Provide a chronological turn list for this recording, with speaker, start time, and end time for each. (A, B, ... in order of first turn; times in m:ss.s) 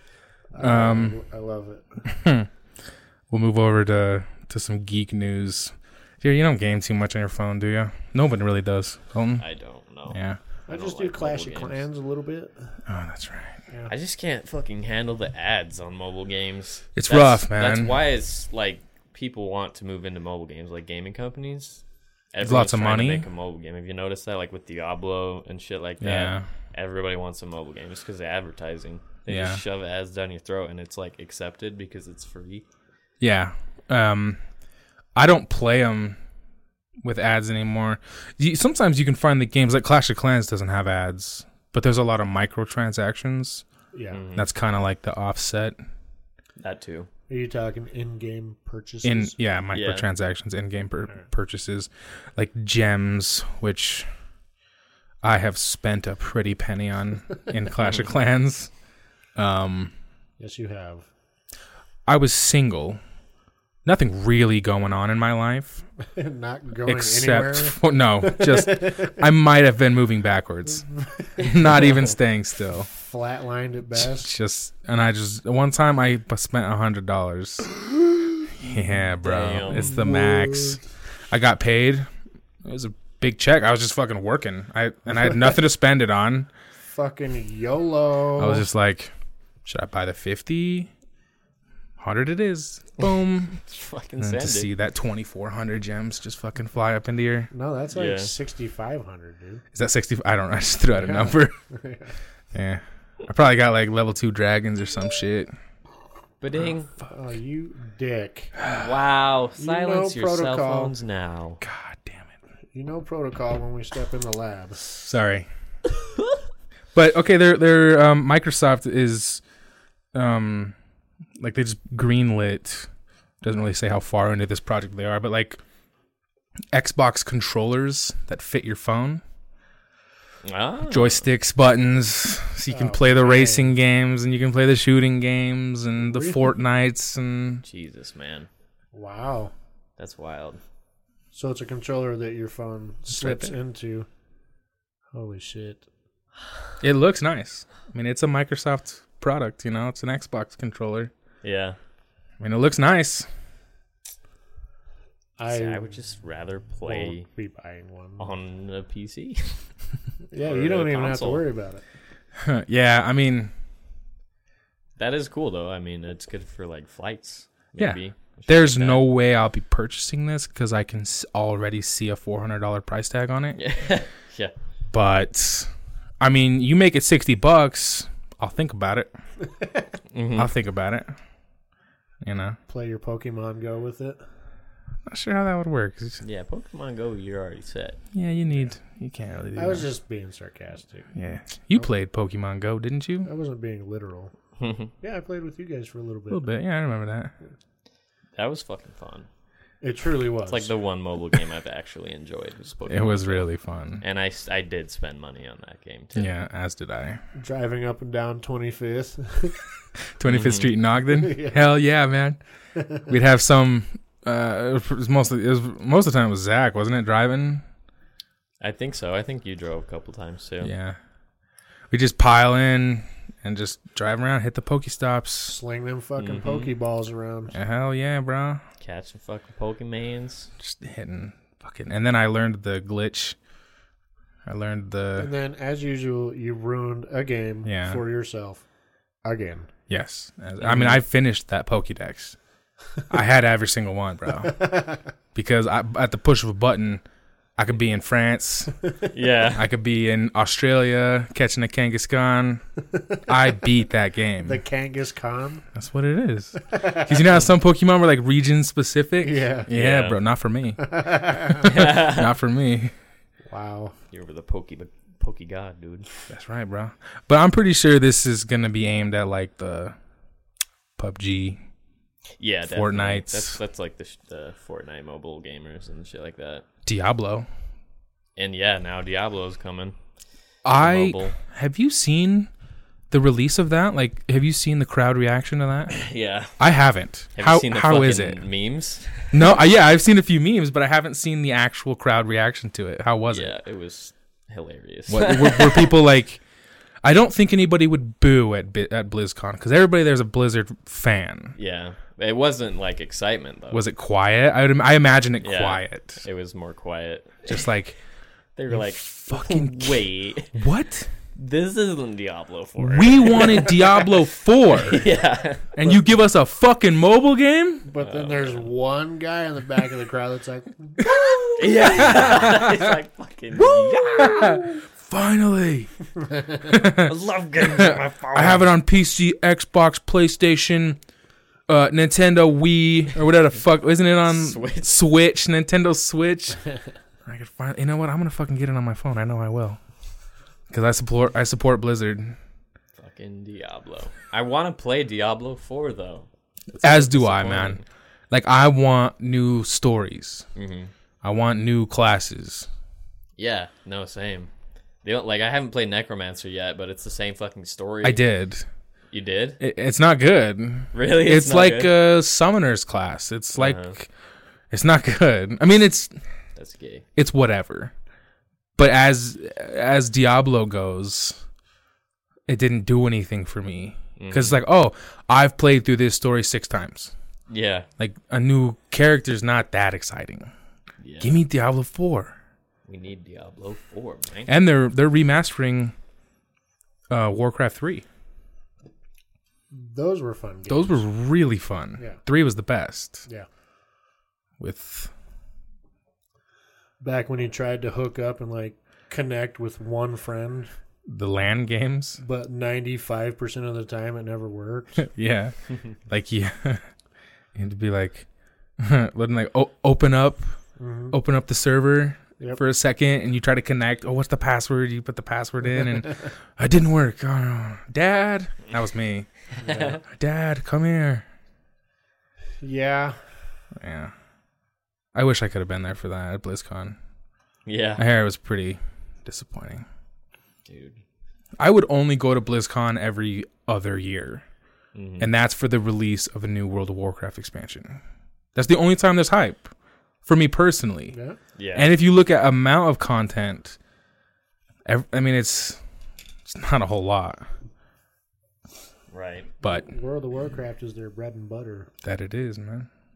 0:00.5-0:01.8 A
0:00.6-0:01.2 B
0:02.1-0:02.5 B
0:03.3-0:09.4 B
0:09.4-0:11.8 C
0:10.1-0:10.4 B
0:10.7-0:12.8 A
0:12.8-0:13.6 B
0:13.9-0:32.6 C
0:16.9-0:18.0 B
0:22.4-0:23.2 B
0:26.0-0:26.4 B
0:29.3-0:29.6 B
0:33.2-0:34.4 B
0:35.2-0:36.2 B
0:37.0-0:43.6 B
0:43.9-0:44.2 A
0:44.1-0:44.5 C
0:44.4-0:45.8 B
0:46.6-0:47.1 C
0:47.3-0:49.4 A
0:49.0-0:54.1 B
0:49.7-0:50.1 C
0:55.2-0:58.7 B
0:59.4-0:59.9 B
1:00.4-1:01.1 A
1:02.1-1:03.0 B
1:03.8-1:05.8 B
1:06.0-1:09.1 A
1:06.8-1:12.9 B
1:10.9-1:11.7 A
1:12.9-1:14.3 A
1:14.0-1:17.7 B
1:18.5-1:22.1 B
1:19.2-1:20.0 C
1:19.8-1:20.8 A
1:22.6-1:26.5 B
1:26.8-1:28.6 A
1:28.4-1:29.1 B
1:29.6-1:30.9 B
1:32.0-1:33.6 B
1:33.7-1:34.7 C
1:34.2-1:37.5 B
1:37.5-1:39.6 A
1:37.9-1:38.3 C
1:39.7-1:41.5 B
1:41.0-1:42.1 A
1:42.5-1:45.5 B
1:46.4-1:46.9 C
1:47.1-1:48.5 A
1:48.6-1:48.9 B
1:48.8-1:51.6 C
1:49.6-1:50.9 A
1:51.6-1:52.3 B
1:52.7-1:54.8 A
1:55.0-1:55.5 B
1:56.9-1:59.4 B
2:00.1-2:00.7 B
2:01.4-2:02.9 B
2:03.4-2:05.6 B
2:06.7-2:09.2 B
2:10.4-2:11.2 C
2:10.9-2:17.6 B
2:12.7-2:13.7 A
2:16.0-2:16.5 A
2:17.6-2:18.5 C
2:18.9-2:19.5 A
2:20.0-2:20.6 C
2:21.3-2:24.1 A
2:23.1-2:23.5 B
2:25.1-2:25.8 A
2:26.8-2:31.1 B
2:31.4-2:31.8 C
2:32.4-2:33.3 B
2:35.4-2:35.9 A
2:35.5-2:37.3 C
2:36.8-2:38.3 A
2:38.2-2:39.6 C
2:40.3-2:41.8 A
2:40.4-2:41.4 C
2:42.4-2:43.5 B
2:45.0-2:49.0 C
2:47.8-2:53.6 B
2:53.6-2:54.5 C
2:54.9-2:59.1 B
3:00.1-3:00.5 C
3:00.4-3:01.1 B
3:02.2-3:02.6 B
3:02.7-3:04.2 A
3:05.0-3:06.2 B
3:06.2-3:08.0 C
3:08.1-3:09.9 B
3:09.5-3:11.1 A
3:11.1-3:13.3 B
3:13.2-3:14.3 A
3:14.6-3:14.9 C
3:15.0-3:16.4 A
3:16.3-3:17.3 B
3:18.4-3:19.3 C
3:19.8-3:20.7 A
3:20.5-3:23.5 C
3:22.9-3:24.0 B
3:24.0-3:26.3 C
3:26.2-3:27.2 B
3:27.3-3:29.6 A
3:30.2-3:32.4 B
3:30.2-3:30.7 C
3:31.1-3:31.6 A
3:32.8-3:33.0 A
3:33.0-3:37.6 B
3:38.6-3:40.7 C
3:40.6-3:41.0 B
3:41.9-3:45.6 B
3:45.5-3:47.5 A
3:46.2-3:46.7 C
3:47.5-3:48.6 B
3:48.8-3:50.5 C
3:50.6-3:53.4 B
3:54.4-3:55.3 B
3:55.2-3:58.6 A
3:57.6-3:58.0 B
3:59.2-3:59.7 A
3:59.9-4:02.4 B
4:00.6-4:01.0 C
4:03.1-4:04.6 B
4:04.4-4:05.0 A
4:05.3-4:07.0 B
4:07.6-4:08.8 B
4:09.1-4:09.6 C
4:09.5-4:12.6 B
4:12.9-4:13.2 A
4:13.2-4:14.6 B
4:14.4-4:15.6 A
4:15.7-4:22.9 B
4:16.7-4:17.3 A
4:19.2-4:19.7 A
4:19.7-4:20.2 C
4:20.8-4:21.8 A
4:21.6-4:22.3 C
4:23.5-4:23.9 A
4:24.1-4:26.1 C
4:26.3-4:29.9 B
4:31.0-4:31.6 B
4:32.4-4:36.6 C
4:32.7-4:33.6 B
4:36.8-4:37.5 B
4:38.4-4:40.0 C
4:40.6-4:42.5 B
4:40.8-4:41.4 C
4:43.1-4:46.0 B
4:45.9-4:46.6 C
4:46.6-4:48.4 B
4:47.4-4:49.5 C
4:49.3-4:53.5 B
4:53.3-4:55.9 C
4:55.1-4:56.4 B
4:57.0-5:01.5 B
5:01.6-5:03.8 C
5:03.7-5:06.2 B
5:05.4-5:07.7 C
5:07.4-5:08.0 B
5:08.6-5:10.6 C
5:08.7-5:11.1 B
5:11.4-5:15.8 C
5:12.8-5:15.1 B
5:15.7-5:17.9 B
5:17.8-5:21.0 A
5:18.0-5:18.7 C
5:21.0-5:22.9 B
5:21.6-5:24.8 C
5:23.6-5:25.9 B
5:26.6-5:27.1 B
5:26.8-5:28.7 C
5:27.6-5:31.0 B
5:31.7-5:36.6 B
5:34.2-5:35.0 C
5:37.2-5:39.8 B
5:40.7-5:42.4 B
5:43.0-5:47.8 C
5:46.8-5:47.8 B
5:48.3-5:50.4 B
5:50.5-5:50.9 C
5:51.2-5:52.7 B
5:53.4-5:54.5 C
5:55.0-5:58.2 C
5:58.0-5:58.6 B
5:59.1-5:59.6 C
5:59.6-6:04.1 B
6:00.9-6:01.9 C
6:03.6-6:03.9 C
6:04.7-6:06.1 B
6:06.6-6:07.0 C
6:07.2-6:07.9 B
6:08.8-6:11.4 B
6:12.5-6:17.1 B
6:14.2-6:14.6 C
6:17.5-6:17.9 C
6:18.0-6:20.5 B
6:21.0-6:21.4 C
6:21.2-6:22.3 B
6:22.9-6:24.5 C
6:24.5-6:25.9 B
6:27.1-6:28.0 B
6:29.7-6:31.0 A
6:30.7-6:33.2 B
6:34.6-6:35.1 B
6:37.0-6:40.7 A
6:41.1-6:42.2 B
6:42.2-6:45.0 A
6:45.0-6:46.8 B
6:47.5-6:48.3 B
6:48.8-6:50.5 B
6:50.8-6:51.1 A
6:51.1-6:59.3 B
6:59.6-7:00.0 A
6:59.6-7:00.0 C
7:00.0-7:01.2 B
7:02.6-7:03.2 A
7:03.8-7:04.1 B
7:05.1-7:07.0 B
7:07.6-7:08.0 C
7:08.0-7:09.8 B
7:10.6-7:11.0 C
7:11.6-7:14.4 B
7:14.9-7:15.3 C
7:15.2-7:18.0 B
7:18.5-7:19.7 B
7:20.2-7:21.2 B
7:21.1-7:21.4 A
7:21.6-7:22.0 C
7:21.7-7:23.8 B
7:24.8-7:25.8 B
7:26.4-7:27.4 B
7:29.1-7:29.5 C
7:29.6-7:29.9 B
7:29.6-7:31.9 A
7:32.0-7:32.9 B